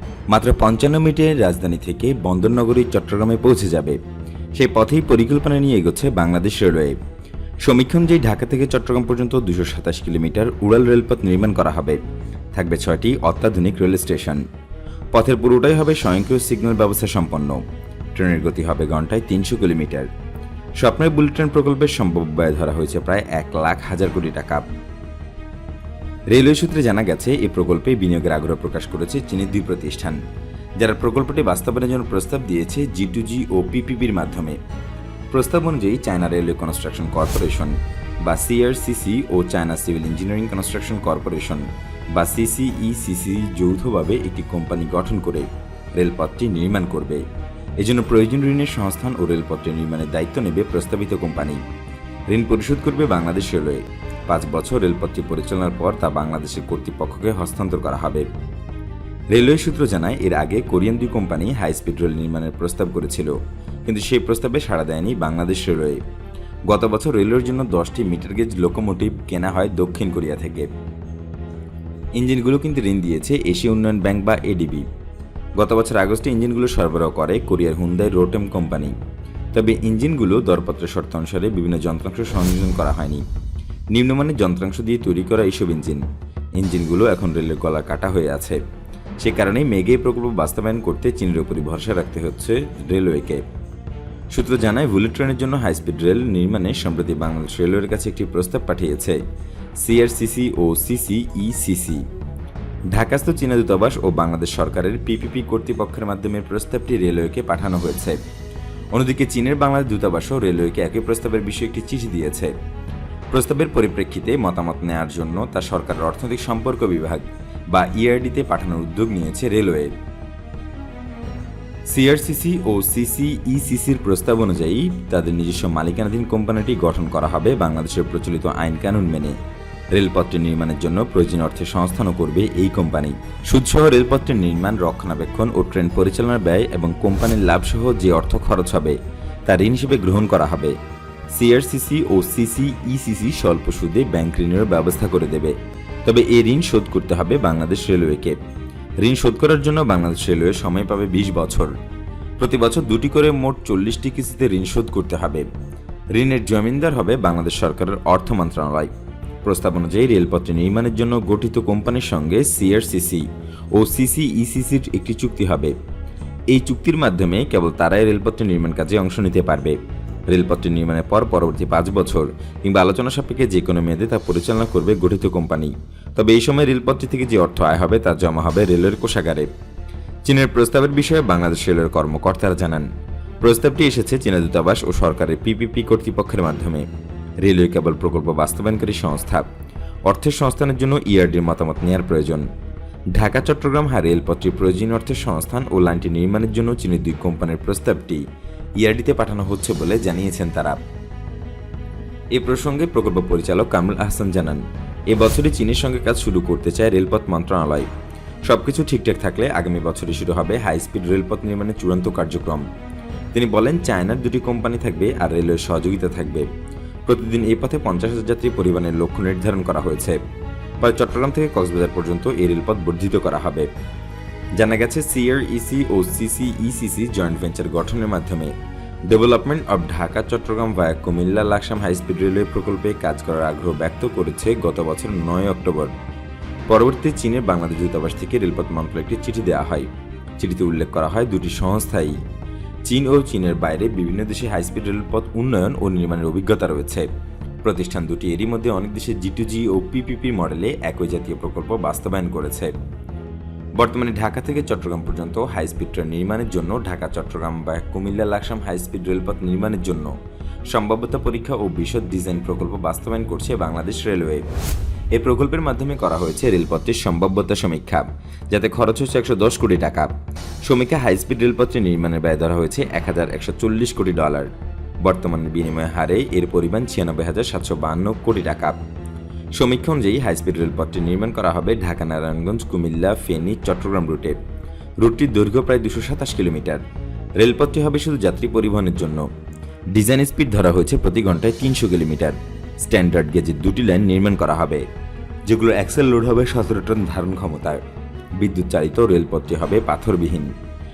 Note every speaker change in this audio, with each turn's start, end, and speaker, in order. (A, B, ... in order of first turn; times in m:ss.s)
0:00.3-0:04.0 A
0:04.5-0:07.0 A
0:07.6-0:12.0 A
0:12.5-0:14.4 A
0:15.1-0:17.6 A
0:18.1-0:20.1 A
0:20.8-0:24.7 A
0:26.3-0:30.2 A
0:30.8-0:34.6 A
0:35.3-0:47.2 A
0:47.8-0:51.6 A
0:52.3-0:58.3 A
0:59.3-1:03.3 A
1:03.8-1:06.0 A
1:06.7-1:10.7 A
1:12.2-1:14.8 A
1:15.6-1:18.9 A
1:19.5-1:23.2 A
1:23.9-1:26.0 A
1:26.6-1:28.6 A
1:29.2-1:33.4 A
1:34.3-1:39.2 A
1:39.8-1:42.0 A
1:42.9-1:48.2 A
1:48.9-1:52.5 A
1:53.3-1:59.9 A
2:01.9-2:09.4 A
2:09.9-2:20.7 A
2:21.3-2:28.4 A
2:29.0-2:31.7 A
2:32.4-2:35.4 A
2:36.1-2:38.9 A
2:39.4-2:45.7 A
2:46.5-2:49.8 A
2:50.3-2:59.5 A
3:00.2-3:02.9 A
3:03.4-3:06.8 A
3:07.4-3:09.5 A
3:10.0-3:12.4 A
3:13.1-3:18.2 A
3:18.8-3:20.8 A
3:22.3-3:27.9 A
3:28.4-3:32.6 A
3:33.3-3:36.5 A
3:37.0-3:40.2 A
3:40.8-3:43.7 A
3:44.6-3:48.5 A
3:49.1-3:55.9 A
3:56.7-4:02.2 A
4:02.8-4:07.1 A
4:07.6-4:12.7 A
4:13.8-4:20.1 A
4:20.7-4:24.5 A
4:25.1-4:30.1 A
4:30.6-4:34.5 A
4:35.0-4:38.8 A
4:39.5-4:44.4 A
4:45.0-4:46.8 A
4:47.4-4:49.2 A
4:49.9-4:54.8 A
4:55.4-4:57.8 A
4:58.4-5:00.5 A